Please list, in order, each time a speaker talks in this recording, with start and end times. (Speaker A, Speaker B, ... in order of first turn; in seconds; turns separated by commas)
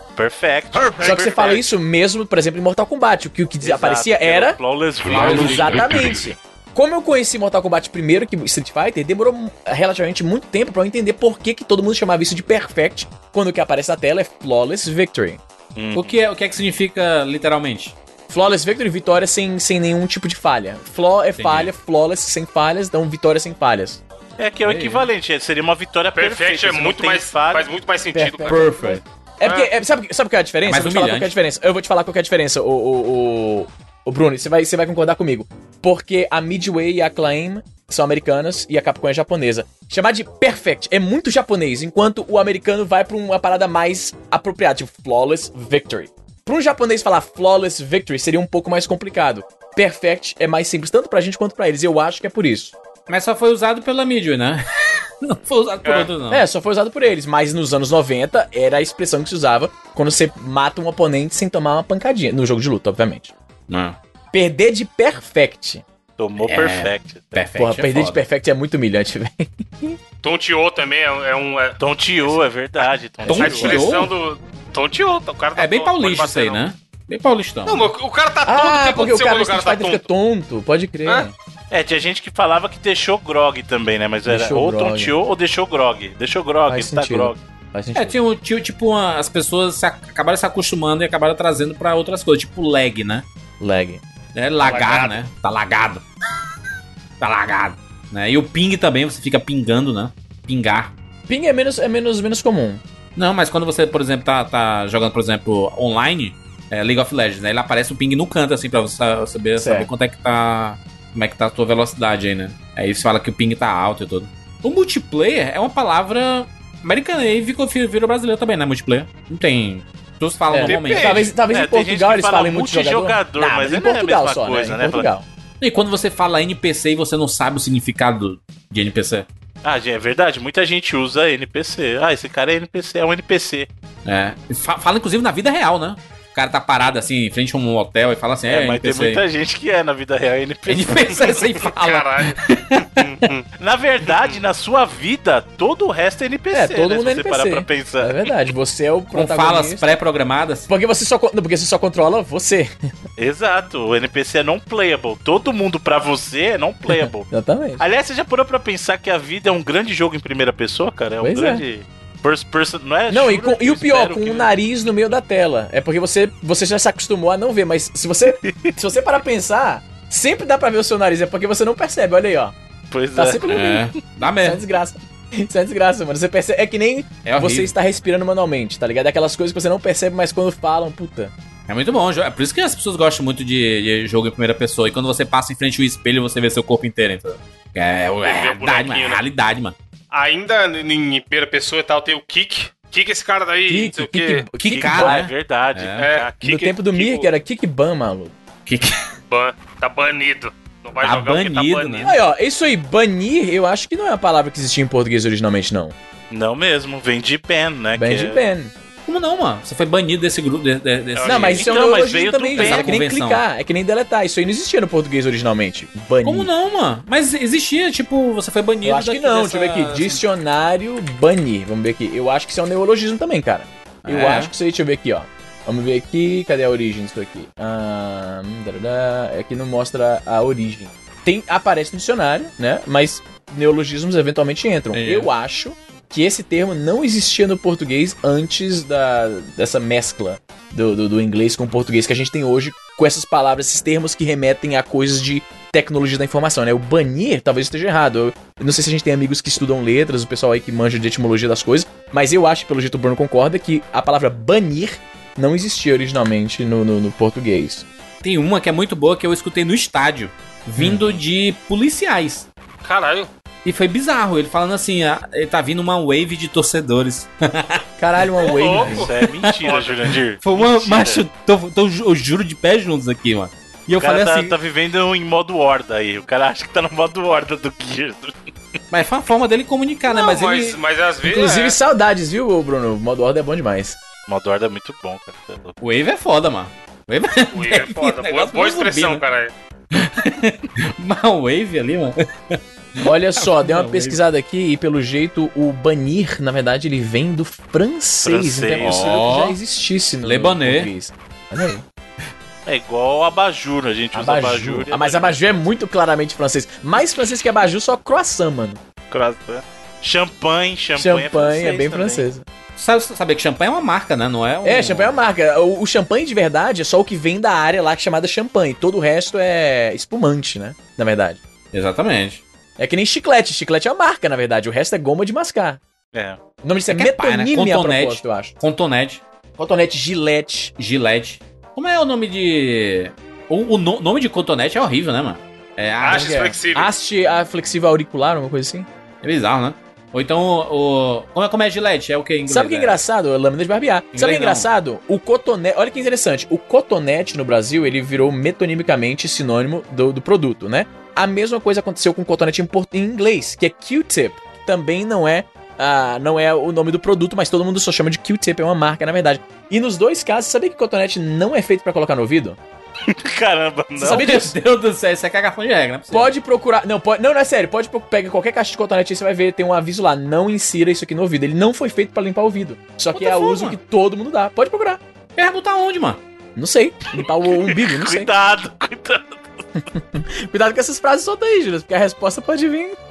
Speaker A: 0.2-1.3, Speaker B: 1.0-1.6, Speaker C: 1.0-15.4, Speaker A: 3.6-6.0, Speaker D: 5.0-6.2, Speaker A: 15.8-16.1, Speaker D: 15.9-17.9, Speaker C: 18.3-24.0, Speaker D: 21.4-21.7, Speaker A: 24.4-27.7, Speaker D: 24.6-25.1, Speaker B: 26.1-28.7, Speaker C: 28.1-52.7, Speaker D: 28.5-29.0, Speaker B: 29.4-29.7, Speaker D: 30.6-31.3, Speaker D: 53.1-56.5, Speaker C: 56.3-63.3, Speaker D: 63.7-64.0, Speaker C: 64.3-65.8, Speaker A: 66.2-67.3, Speaker D: 66.4-68.2, Speaker C: 67.6-70.0, Speaker B: 70.2-72.4, Speaker A: 71.8-73.8, Speaker D: 73.2-74.1, Speaker B: 73.4-76.6, Speaker D: 75.6-77.9, Speaker B: 77.7-80.0, Speaker C: 78.5-81.3, Speaker A: 81.7-87.4, Speaker C: 84.3-85.1, Speaker C: 86.7-88.2, Speaker D: 88.0-93.3, Speaker C: 93.6-94.0, Speaker D: 94.3-96.0, Speaker B: 94.6-95.2, Speaker D: 97.2-100.9, Speaker C: 101.3-102.8, Speaker D: 103.2-121.3, Speaker C: 109.6-109.9, Speaker C: 120.5-125.3, Speaker A: 120.7-125.1, Speaker D: 125.6-129.3, Speaker A: 129.6-133.7, Speaker D: 134.1-139.2, Speaker A: 138.5-141.4, Speaker D: 140.7-143.1, Speaker B: 141.5-143.5, Speaker A: 143.6-148.3, Speaker B: 144.1-144.4, Speaker C: 146.5-149.9, Speaker D: 149.1-150.7, Speaker C: 150.7-152.7, Speaker A: 153.2-164.5, Speaker C: 156.9-157.8, Speaker C: 161.2-161.6, Speaker C: 163.1-172.5, Speaker A: 168.4-168.7, Speaker A: 172.9-173.5, Speaker C: 173.1-173.9, Speaker D: 173.4-174.6, Speaker C: 174.4-181.3, Speaker D: 177.2-177.7, Speaker D: 181.7-189.8, Speaker B: 188.2-189.2, Speaker B: 190.1-194.4, Speaker C: 193.7-195.3, Speaker D: 194.6-196.1, Speaker A: 194.7-196.8, Speaker B: 196.0-197.2, Speaker C: 196.4-198.3, Speaker D: 198.7-199.0, Speaker B: 199.3-202.2, Speaker D: 201.0-202.2, Speaker C: 202.0-205.9, Speaker A: 206.3-208.4, Speaker C: 208.0-208.7, Speaker D: 209.1-211.8, Speaker B: 211.2-211.5, Speaker A: 211.2-212.9, Speaker C: 211.3-216.5, Speaker D: 212.5-213.4, Speaker D: 216.2-220.2, Speaker C: 218.8-257.9, Speaker D: 224.0-224.5, Speaker D: 234.9-235.3, Speaker D: 258.2-262.5, Speaker C: 260.8-261.1, Speaker B: 262.8-263.3, Speaker D: 263.6-269.5, Speaker C: 268.0-269.1, Speaker B: 268.4-269.1, Speaker A: 268.9-271.2, Speaker B: 269.6-270.1, Speaker D: 270.4-274.6, Speaker A: 274.0-278.4, Speaker D: 278.9-280.8, Speaker B: 280.1-281.8, Speaker C: 281.3-284.0, Speaker A: 284.3-285.8, Speaker D: 285.8-289.2, Speaker B: 287.5-289.5, Speaker D: 289.9-294.2, Speaker C: 293.0-301.9, Speaker A: 298.2-299.1, Speaker D: 298.8-299.6, Speaker D: 300.2-300.9, Speaker A: 302.7-305.6, Speaker C: 304.1-308.8, Speaker A: 309.1-312.2, Speaker C: 311.0-312.4, Speaker D: 312.8-315.2, Speaker C: 314.6-321.4, Speaker D: 321.7-322.4, Speaker C: 322.8-325.8, Speaker A: 326.1-326.4, Speaker C: 326.6-328.5, Speaker D: 326.9-329.2, Speaker C: 329.6-330.7, Speaker D: 330.8-336.6, Speaker B: 336.0-336.9, Speaker C: 336.1-338.9, Speaker D: 339.2-343.0, Speaker C: 342.5-362.6, Speaker D: 344.1-344.7, Speaker A: 363.1-364.3, Speaker C: 364.0-364.6, Speaker D: 364.0-366.3, Speaker C: 366.1-375.0, Speaker D: 373.1-373.8, Speaker D: 375.4-376.2, Speaker C: 376.6-378.3, Speaker A: 377.2-379.5, Speaker C: 379.9-383.0